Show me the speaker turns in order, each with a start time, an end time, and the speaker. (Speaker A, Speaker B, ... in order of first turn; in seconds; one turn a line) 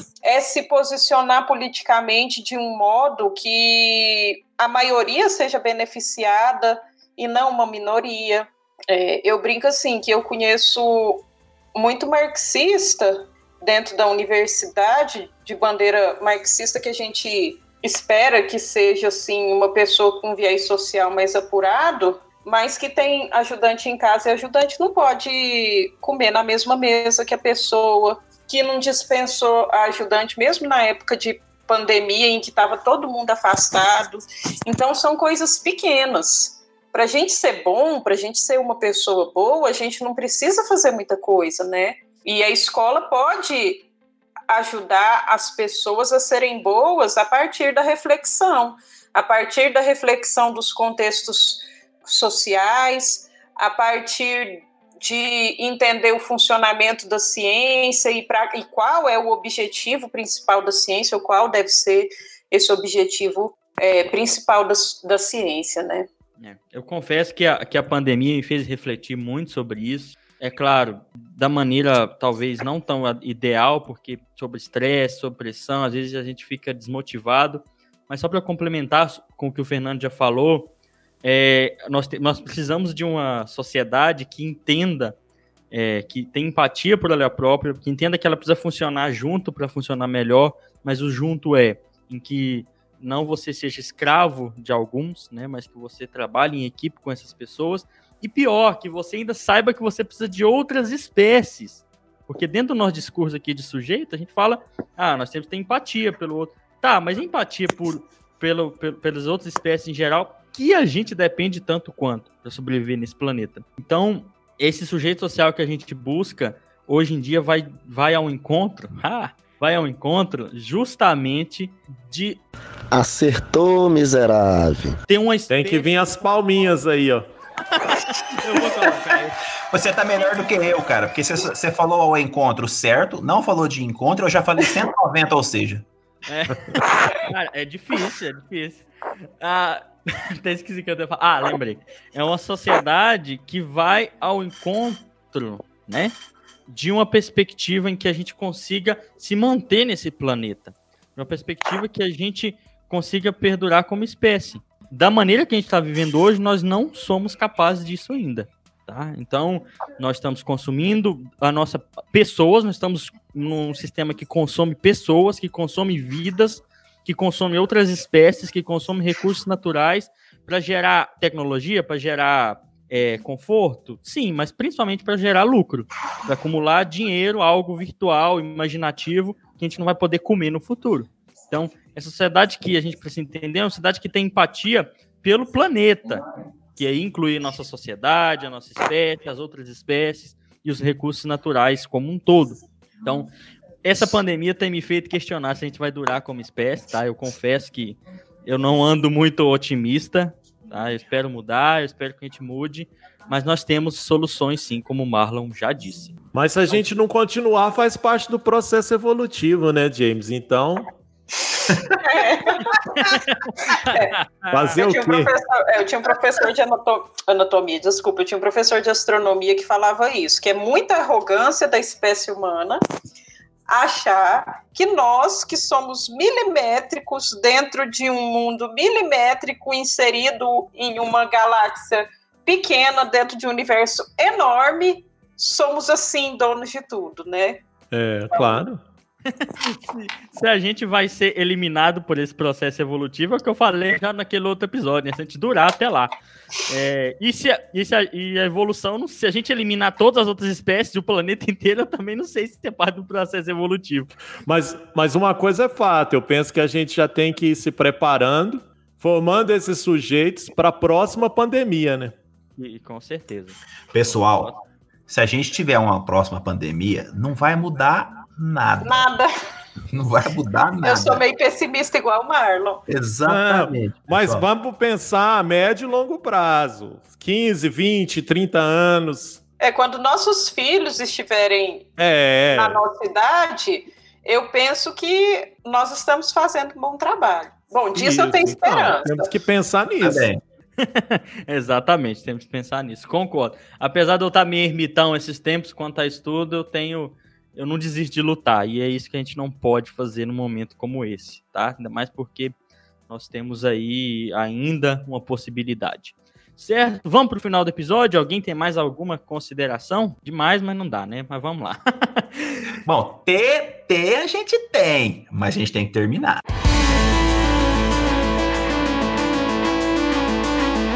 Speaker A: 0.2-43.9
Speaker A: 44.5-66.1
Speaker B: 66.4-80.7
Speaker B: 81.2-85.2
Speaker B: 85.7-122.4
Speaker C: 122.9-125.0
Speaker B: 125.1-125.9
Speaker D: 125.5-127.3
Speaker B: 127.7-129.4
Speaker E: 129.7-135.9
Speaker B: 136.3-138.9
Speaker B: 139.4-146.1
Speaker B: 146.7-186.2
Speaker B: 186.8-193.3
Speaker B: 193.8-206.2
Speaker D: 206.3-210.9
Speaker B: 206.7-207.0
Speaker A: 212.0-213.1
Speaker B: 212.7-214.8
Speaker A: 213.7-214.1
Speaker D: 214.5-215.3
Speaker A: 214.8-222.8
Speaker A: 223.7-237.6
Speaker D: 237.9-238.8
Speaker A: 238.3-238.6
Speaker B: 239.3-246.1
Speaker B: 246.7-254.1
Speaker D: 254.4-262.1
Speaker B: 262.6-264.6
Speaker E: 263.9-264.5
Speaker E: 265.1-269.1
Speaker A: 268.8-269.3
Speaker E: 269.9-271.2
Speaker A: 270.8-272.8
Speaker E: 272.9-274.5
Speaker D: 273.3-279.4
Speaker A: 279.6-281.9
Speaker D: 282.0-282.8
Speaker A: 282.5-289.3
Speaker D: 287.9-290.3
Speaker E: 290.0-290.4
Speaker B: 290.8-302.6
Speaker B: 303.1-312.7
Speaker E: 312.9-316.4